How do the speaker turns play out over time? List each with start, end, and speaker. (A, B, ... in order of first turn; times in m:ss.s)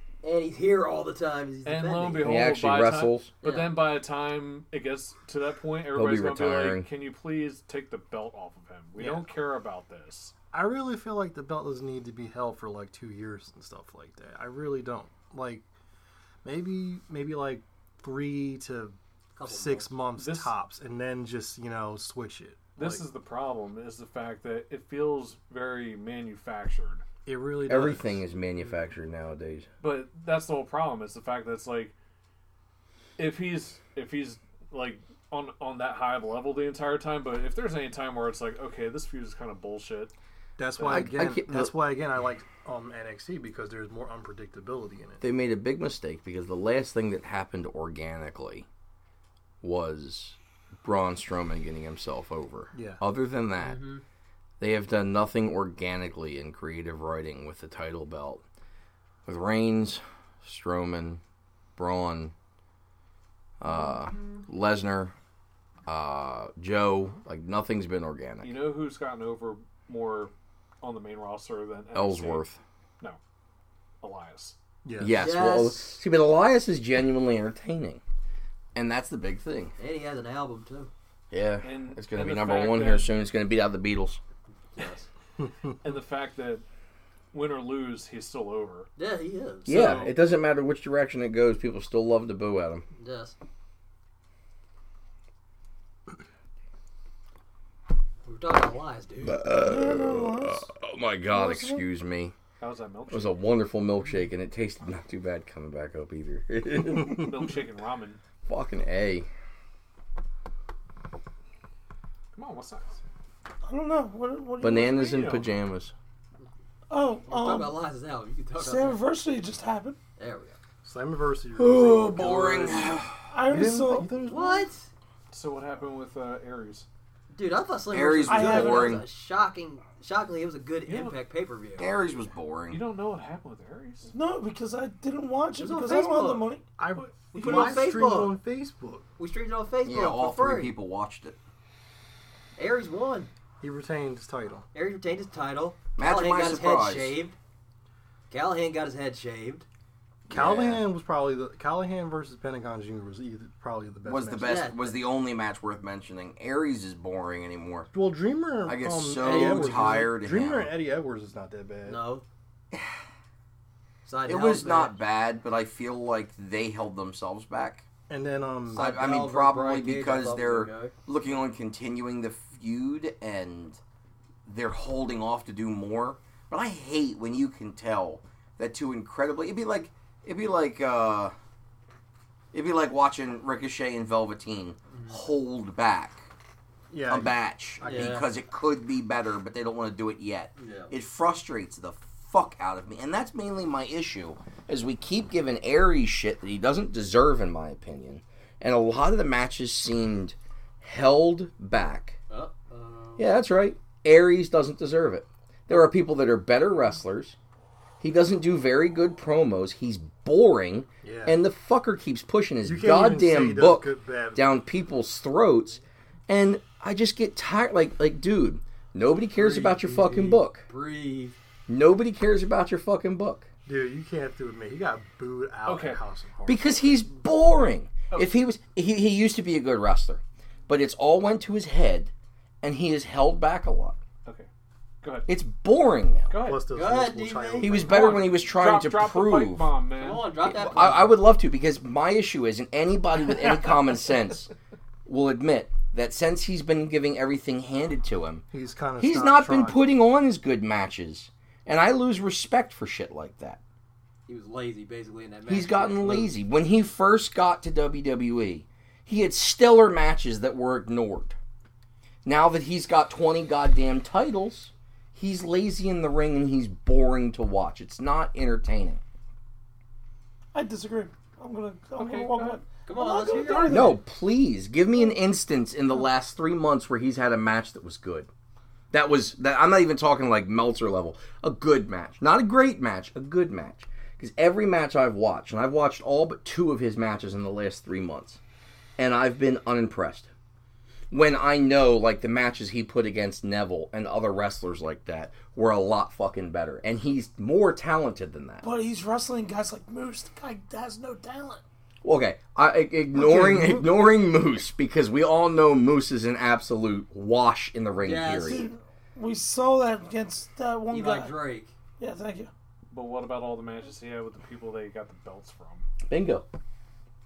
0:00.2-0:02.3 A
0:01.6-0:10.3 B
0:02.2-0:03.3 C
0:03.4-0:03.7 A
0:05.9-0:06.9 C
0:09.0-0:09.2 D
0:10.5-0:15.6 D
0:16.4-0:23.0 D
0:19.4-0:19.9 A
0:20.2-0:20.5 B
0:22.8-0:27.0 B
0:27.2-0:28.2 D
0:27.6-0:29.7 C
0:29.8-0:31.9 B
0:33.2-0:40.1 B
0:40.6-0:45.2 D
0:40.8-0:41.1 B
0:40.8-0:41.7 C
0:45.2-0:48.7 C
0:49.6-0:53.8 C
0:52.7-0:53.0 D
0:53.6-0:54.0 A
0:54.6-0:58.4 C
0:59.2-1:01.2 C
1:01.8-1:02.3 C
1:03.6-1:05.1 C
1:05.8-1:08.6 C
1:08.4-1:12.4 B
1:11.9-1:12.6 C
1:14.0-1:14.6 B
1:14.8-1:15.2 D
1:15.0-1:18.0 C
1:15.2-1:16.0 A
1:18.7-1:19.7 C
1:19.8-1:20.9 A
1:21.3-1:24.2 C
1:21.6-1:23.1 B
1:24.8-1:25.1 A
1:25.4-1:25.7 D
1:25.8-1:26.6 B
1:27.3-1:28.9 B
1:29.0-1:29.7 A
1:29.6-1:30.1 B
1:29.6-1:32.8 C
1:33.0-1:33.3 A
1:38.2-1:39.4 A
1:39.2-1:42.3 C
1:39.5-1:40.7 E
1:41.3-1:41.8 E
1:42.6-1:43.4 B
1:43.1-1:47.4 C
1:47.1-1:48.2 B
1:48.4-1:49.3 C
1:52.3-1:53.0 B
1:53.6-1:55.0 E
1:54.6-1:55.9 C
1:54.8-1:55.4 B
1:56.9-1:57.8 E
1:57.3-1:59.0 A
1:58.6-2:00.0 E
2:00.2-2:00.6 A
2:00.8-2:04.7 D
2:01.6-2:03.1 C
2:03.3-2:04.1 E
2:04.2-2:04.9 A
2:05.3-2:06.8 B
2:07.3-2:11.9 A
2:07.9-2:09.0 C
2:08.3-2:09.0 E
2:10.9-2:11.1 B
2:11.8-2:12.8 C
2:12.7-2:14.1 B
2:14.1-2:16.6 E
2:15.6-2:16.5 A
2:16.8-2:19.1 D
2:17.3-2:18.4 A
2:19.2-2:20.8 A
2:19.8-2:21.4 C
2:22.6-2:23.3 A
2:23.6-2:24.7 D
2:24.7-2:27.4 A
2:26.0-2:27.2 C
2:28.3-2:29.6 A
2:30.3-2:30.8 C
2:30.3-2:34.6 D
2:34.0-2:37.9 C
2:34.4-2:35.0 A
2:37.9-2:42.0 D
2:38.6-2:40.7 C
2:39.2-2:40.0 A
2:41.8-2:42.2 A
2:42.7-2:43.0 C
2:44.0-2:45.0 A
2:44.2-2:47.9 C
2:48.1-2:48.9 D
2:48.7-2:50.9 A
2:48.7-2:53.8 C
2:54.4-3:01.3 C
3:02.5-3:06.3 C
3:04.9-3:05.2 A
3:06.9-3:08.1 D
3:07.1-3:22.2 C
3:07.8-3:08.3 A
3:10.6-3:10.9 A
3:22.3-3:23.3 A
3:23.2-3:27.4 C
3:28.0-3:40.6 C
3:31.0-3:31.4 D
3:32.6-3:34.4 D
3:39.4-3:41.4 A
3:41.7-3:43.5 C
3:43.6-3:47.0 D
3:45.6-3:46.0 B
3:46.4-3:52.1 C
3:52.6-3:54.0 C
3:55.0-3:55.3 B
3:55.3-3:56.3 C
3:56.3-3:56.6 B
3:56.4-3:58.1 D
3:56.7-3:57.8 A
3:57.6-3:59.7 C
3:57.8-4:00.3 B
4:00.0-4:01.2 A
4:00.4-4:04.5 C
4:05.0-4:08.4 C
4:08.5-4:09.8 D
4:09.0-4:13.6 C
4:14.3-4:16.3 A
4:15.5-4:21.4 C
4:22.2-4:29.0 C
4:30.5-4:34.0 E
4:32.0-4:32.6 B
4:32.8-4:33.9 A
4:33.4-4:33.8 B
4:33.7-4:38.3 C
4:38.9-4:48.4 C
4:49.0-4:50.3 C
4:51.1-4:58.6 C
4:58.6-5:01.6 E
5:02.0-5:08.7 C
5:03.2-5:03.8 D
5:08.0-5:08.7 A
5:08.4-5:11.4 E
5:10.9-5:11.7 A
5:12.0-5:12.5 E
5:12.9-5:15.9 B
5:16.1-5:16.4 C